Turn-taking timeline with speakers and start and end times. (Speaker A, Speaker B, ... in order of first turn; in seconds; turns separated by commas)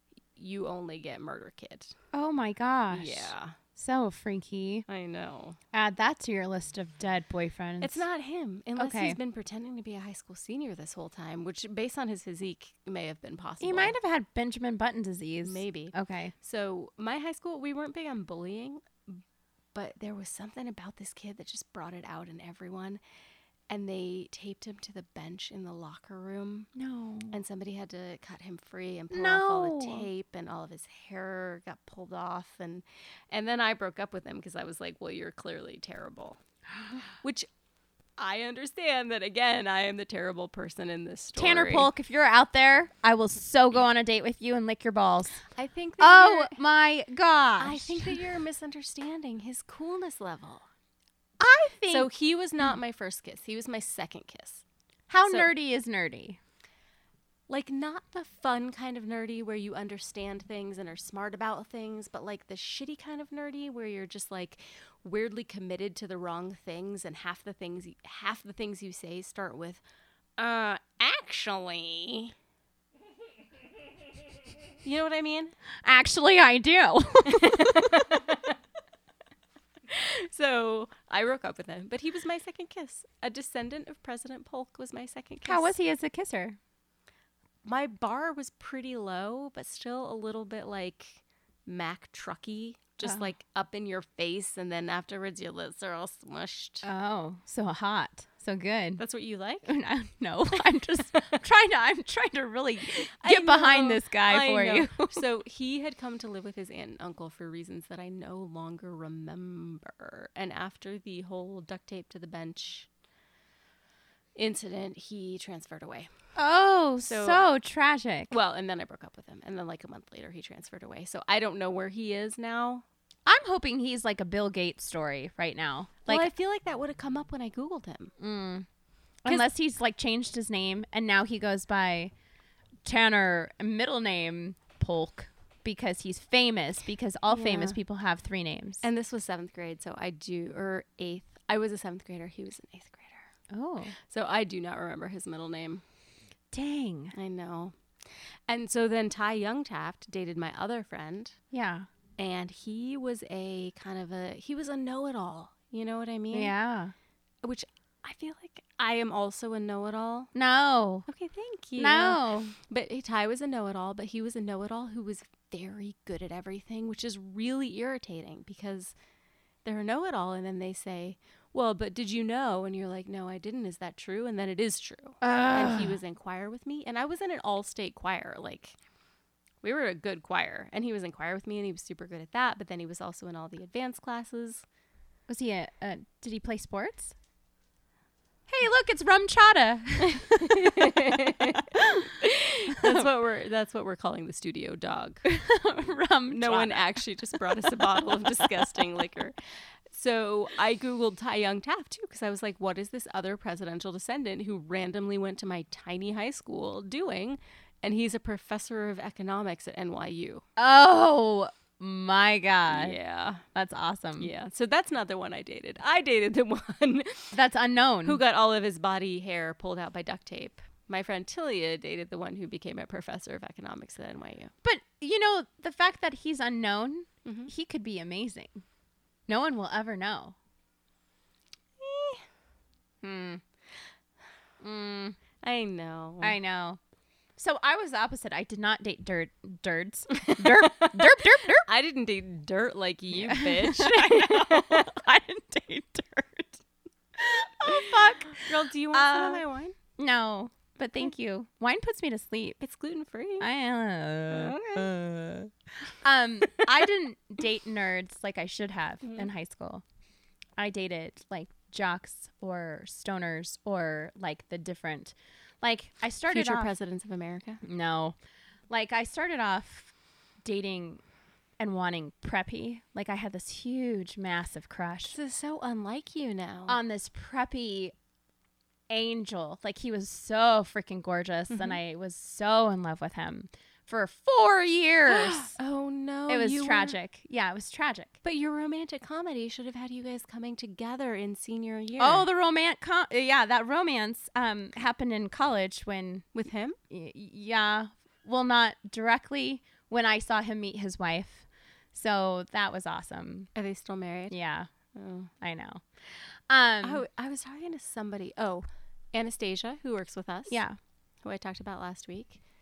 Speaker A: 0.4-1.9, Speaker B: 2.1-4.8, Speaker A: 2.9-3.5, Speaker A: 4.9-5.6, Speaker B: 5.7-8.1, Speaker A: 7.8-13.9, Speaker B: 8.8-9.2, Speaker B: 13.6-16.3, Speaker A: 15.4-19.2, Speaker A: 19.7-23.0, Speaker A: 23.7-26.7, Speaker B: 26.8-27.4, Speaker A: 27.3-36.4, Speaker B: 29.1-30.1, Speaker A: 37.2-37.5, Speaker A: 38.2-41.9, Speaker B: 41.4-45.4, Speaker A: 45.5-46.6, Speaker B: 46.0-48.2, Speaker A: 47.6-50.7, Speaker B: 51.4-52.1, Speaker A: 51.9-54.6, Speaker B: 55.1-56.4, Speaker A: 57.5-69.8, Speaker A: 70.4-72.3, Speaker A: 74.8-75.5, Speaker B: 75.8-78.1, Speaker A: 77.3-78.5, Speaker A: 79.9-85.7, Speaker B: 85.4-86.6, Speaker A: 87.6-96.8, Speaker B: 96.8-99.0, Speaker A: 99.0-99.7, Speaker B: 99.7-105.2, Speaker A: 103.2-112.9, Speaker A: 114.4-116.1, Speaker B: 116.4-118.3, Speaker A: 117.0-117.5, Speaker A: 118.3-122.8, Speaker B: 123.3-126.3, Speaker A: 126.1-128.1, Speaker B: 128.2-128.7, Speaker B: 129.2-132.1, Speaker B: 132.8-138.8, Speaker A: 137.3-137.8, Speaker A: 138.8-143.3, Speaker B: 143.5-143.9, Speaker A: 144.1-145.8, Speaker B: 146.5-147.2, Speaker A: 147.1-147.8, Speaker A: 148.5-151.4, Speaker B: 151.5-151.9, Speaker A: 152.2-156.5, Speaker B: 156.3-156.9, Speaker A: 157.4-160.3, Speaker B: 160.3-161.1, Speaker A: 161.1-168.9, Speaker B: 161.8-162.6, Speaker A: 169.7-178.8, Speaker B: 175.2-176.0, Speaker A: 179.6-184.6, Speaker B: 185.3-187.1, Speaker B: 188.5-190.9, Speaker A: 190.2-195.2, Speaker B: 191.7-192.0, Speaker B: 195.2-197.0, Speaker A: 196.3-199.4, Speaker A: 199.9-210.4, Speaker B: 210.6-213.0, Speaker A: 212.7-213.4, Speaker B: 213.5-214.3, Speaker A: 214.2-217.4, Speaker B: 217.3-218.2, Speaker A: 218.1-224.5, Speaker B: 224.6-228.6, Speaker A: 227.2-227.5, Speaker B: 229.3-230.3, Speaker A: 231.8-232.2, Speaker B: 233.0-233.4, Speaker B: 234.6-235.2, Speaker A: 235.4-236.4, Speaker B: 236.2-236.8, Speaker B: 237.4-241.7, Speaker A: 240.1-245.0, Speaker B: 243.1-246.6, Speaker B: 247.2-249.4, Speaker A: 247.7-249.8, Speaker B: 250.0-252.6, Speaker A: 252.6-253.5, Speaker B: 253.4-259.8, Speaker A: 254.3-254.9, Speaker A: 259.0-259.3, Speaker B: 260.6-266.7, Speaker A: 266.3-267.6, Speaker B: 267.6-268.2, Speaker B: 268.7-269.9, Speaker B: 270.4-271.0, Speaker B: 271.6-275.2, Speaker A: 275.1-276.8, Speaker B: 276.7-277.9, Speaker B: 278.9-285.6, Speaker A: 281.5-281.8, Speaker A: 285.1-287.0, Speaker B: 286.3-288.1, Speaker A: 288.2-292.2, Speaker B: 292.0-296.3, Speaker A: 296.3-296.8, Speaker B: 296.9-303.5, Speaker A: 303.6-304.4, Speaker B: 304.3-304.7, Speaker A: 304.9-305.3, Speaker B: 305.4-305.8, Speaker B: 306.5-307.0, Speaker A: 306.8-310.6, Speaker B: 310.5-310.8, Speaker A: 311.2-312.4